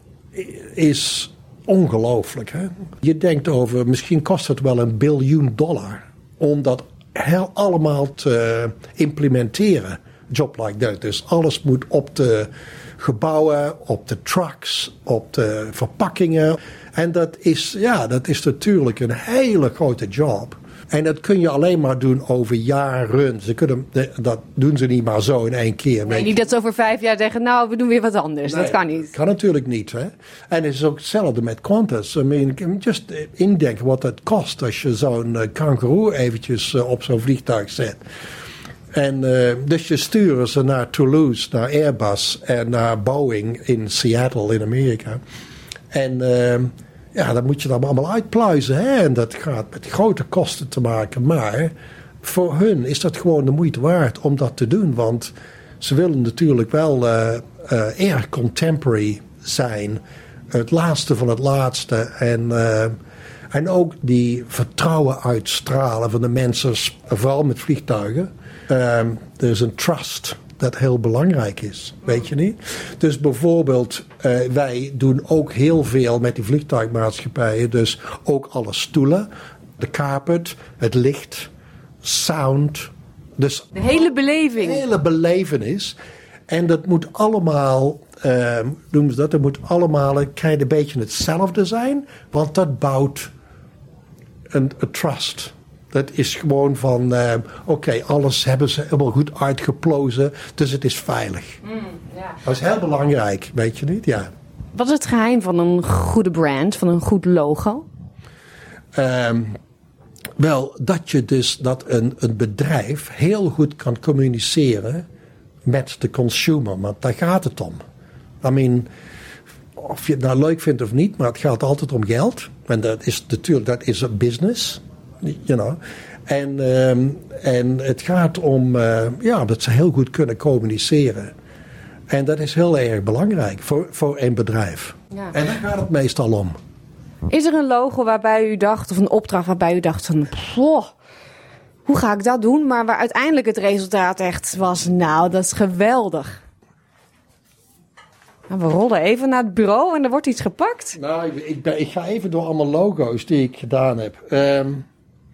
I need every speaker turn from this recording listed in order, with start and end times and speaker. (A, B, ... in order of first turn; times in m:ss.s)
0:00.4-0:26.4 A
0:26.0-0:29.1 B
0:28.5-0:38.0 A
0:38.9-0:45.2 A
0:45.9-1:03.0 A
1:03.5-1:21.5 A
1:22.0-1:23.7 A
1:23.8-1:24.9 B
1:24.6-1:26.0 A
1:26.5-1:33.3 A
1:34.5-1:41.6 A
1:42.4-1:44.3 A
1:44.8-1:47.9 B
1:49.0-1:49.6 A
1:50.4-1:55.0 A
1:55.7-1:57.8 A
1:58.4-1:58.9 A
1:59.8-2:11.3 A
2:12.1-2:16.6 A
2:17.3-2:20.9 B
2:21.9-2:26.4 B
2:28.5-2:31.0 B
2:31.0-2:34.9 A